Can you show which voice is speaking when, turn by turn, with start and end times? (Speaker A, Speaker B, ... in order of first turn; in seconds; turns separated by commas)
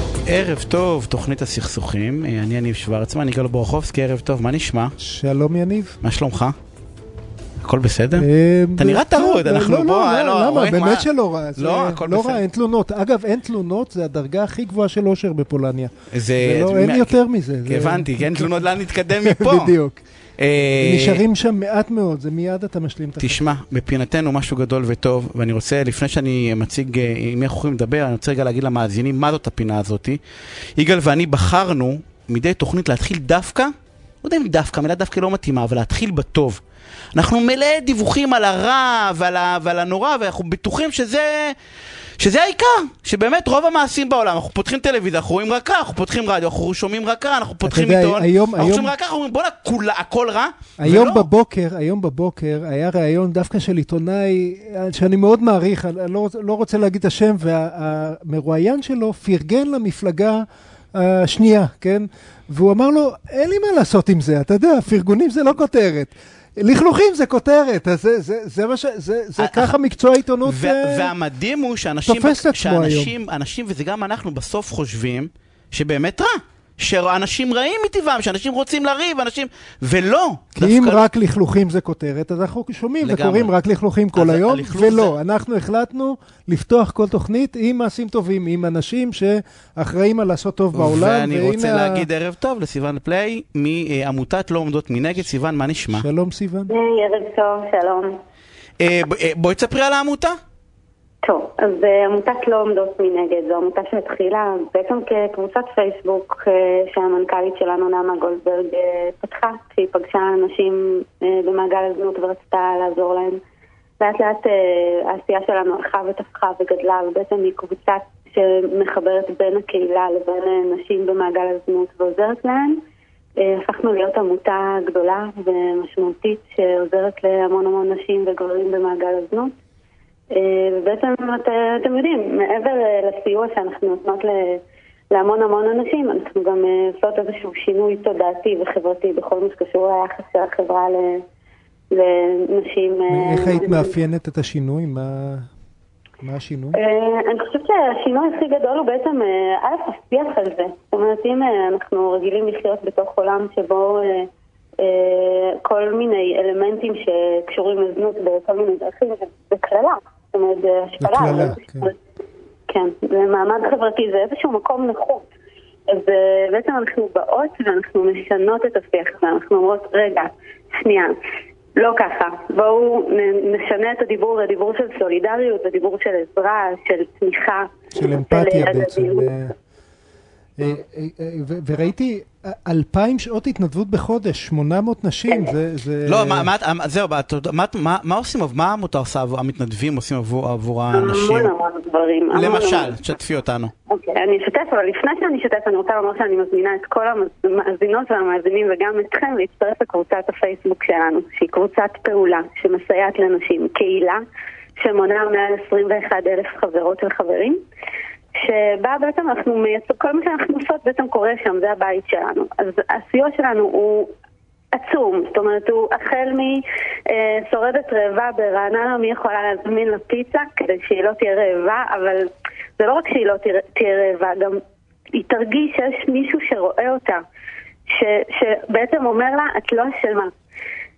Speaker A: 0.3-5.0, Speaker B: 5.0-6.0, Speaker A: 6.0-6.6, Speaker A: 7.6-11.1, Speaker B: 8.2-18.7, Speaker A: 11.6-12.4, Speaker A: 16.1-19.7, Speaker B: 19.2-20.0, Speaker A: 20.4-21.2, Speaker B: 20.8-23.5, Speaker A: 23.2-30.2, Speaker A: 30.8-33.7, Speaker A: 34.2-36.6, Speaker A: 37.1-41.6, Speaker A: 42.2-51.3, Speaker B: 47.6-48.9, Speaker B: 50.8-71.1, Speaker A: 69.4-69.7, Speaker A: 70.4-81.0, Speaker B: 72.1-73.1, Speaker B: 80.6-92.1, Speaker A: 83.0-83.5, Speaker A: 84.2-85.1, Speaker A: 90.8-96.1, Speaker B: 95.9-96.7, Speaker C: 96.7-98.2, Speaker A: 98.8-100.4, Speaker C: 101.2-113.4, Speaker C: 114.0-122.8, Speaker C: 123.4-129.5, Speaker C: 130.3-141.2, Speaker C: 141.9-143.9, Speaker B: 143.1-145.5, Speaker B: 146.2-146.8, Speaker C: 146.7-154.3, Speaker C: 154.8-161.9, Speaker B: 161.0-161.9, Speaker C: 162.7-165.3, Speaker C: 165.9-171.2, Speaker C: 171.8-179.3, Speaker B: 177.9-179.5, Speaker B: 180.6-186.5, Speaker A: 186.1-191.5, Speaker C: 190.9-193.0, Speaker A: 192.3-193.7, Speaker C: 193.9-204.2, Speaker C: 204.8-207.6, Speaker C: 208.3-214.1, Speaker C: 214.7-224.6, Speaker C: 225.2-227.2, Speaker C: 227.9-230.3